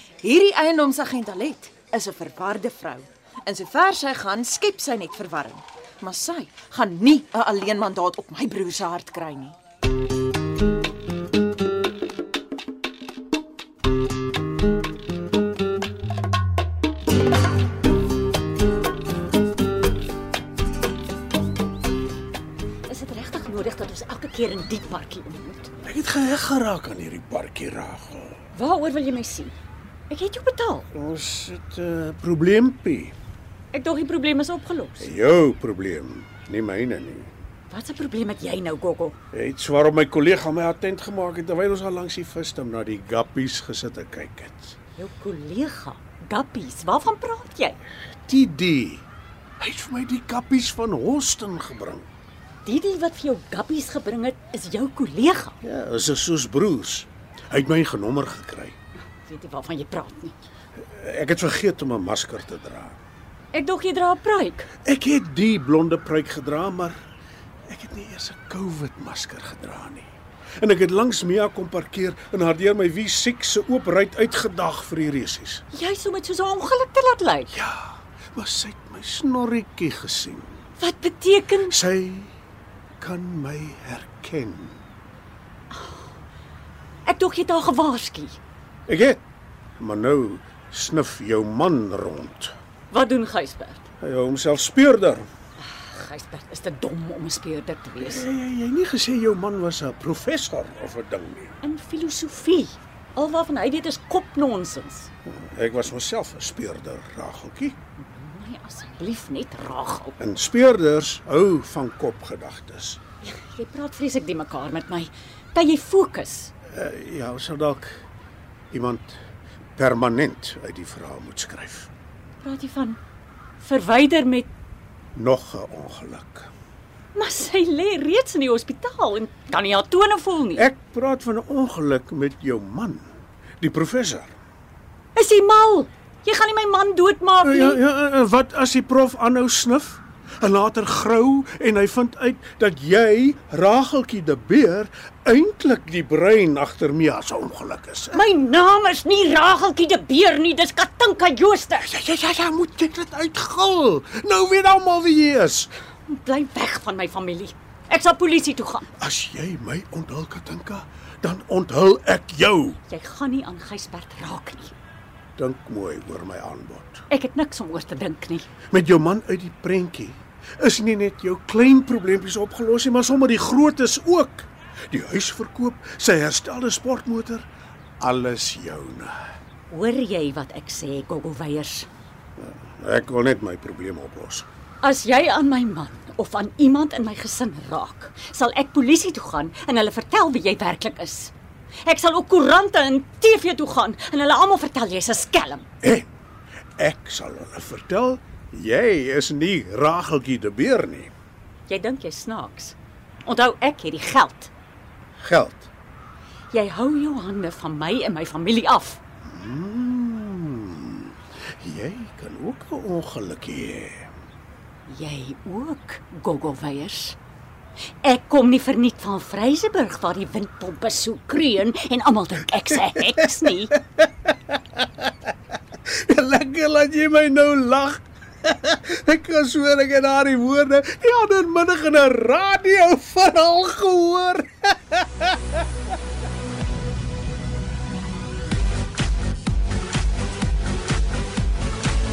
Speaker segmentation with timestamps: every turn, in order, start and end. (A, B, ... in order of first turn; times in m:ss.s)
0:00.2-0:09.6 A
0:22.9-0:25.7 B
0:25.8-0:28.4 C
0:28.5-0:29.5 B
0:30.1-0:30.9 B
0:30.9-0:33.1 C
0:33.7-0:35.1 B
0:35.0-0:37.3 C
0:37.7-0:39.2 B
0:39.3-0:44.7 C
0:45.0-0:47.8 B
0:48.3-0:49.0 C
0:49.6-0:52.1 C
0:52.6-0:55.6 B
0:55.6-0:58.7 C
0:59.2-1:00.4 B
1:00.8-1:03.0 C
1:03.5-1:04.7 B
1:04.8-1:07.0 C
1:07.7-1:10.1 C
1:10.6-1:15.6 C
1:15.7-1:17.5 B
1:17.5-1:20.5 C
1:20.8-1:21.8 B
1:21.7-1:22.3 C
1:23.0-1:24.8 C
1:27.0-1:28.4 B
1:28.9-1:29.2 C
1:29.8-1:32.5 C
1:32.9-1:33.8 B
1:34.0-1:35.3 C
1:35.6-1:38.2 B
1:38.0-1:41.6 C
1:41.6-1:45.1 B
1:45.2-1:47.8 C
1:48.0-1:50.2 B
1:50.2-1:53.0 C
1:53.2-1:56.5 B
1:56.7-1:57.9 C
1:58.7-1:59.2 C
1:59.8-2:01.9 C
2:02.4-2:03.0 B
2:03.6-2:04.5 B
2:05.1-2:06.5 C
2:07.1-2:10.6 B
2:10.6-2:13.1 C
2:13.6-2:14.3 C
2:15.1-2:17.8 B
2:17.4-2:28.2 C
2:28.1-2:31.9 B
2:31.8-2:35.7 C
2:36.1-2:38.9 B
2:39.0-2:42.8 C
2:42.9-2:44.7 B
2:45.4-2:47.0 C
2:47.1-2:48.5 B
2:48.7-2:57.5 C
2:58.0-2:59.1 C
2:59.7-3:01.9 B
3:02.4-3:04.5 C
3:04.8-3:11.3 B
3:11.8-3:15.6 B
3:15.8-3:16.1 C
3:16.8-3:21.1 C
3:21.7-3:24.5 B
3:25.2-3:25.7 C
3:26.5-3:29.0 B
3:29.2-3:34.1 C
3:34.8-3:37.2 B
3:38.0-3:43.7 B
3:44.5-3:44.8 C
3:45.9-3:55.6 C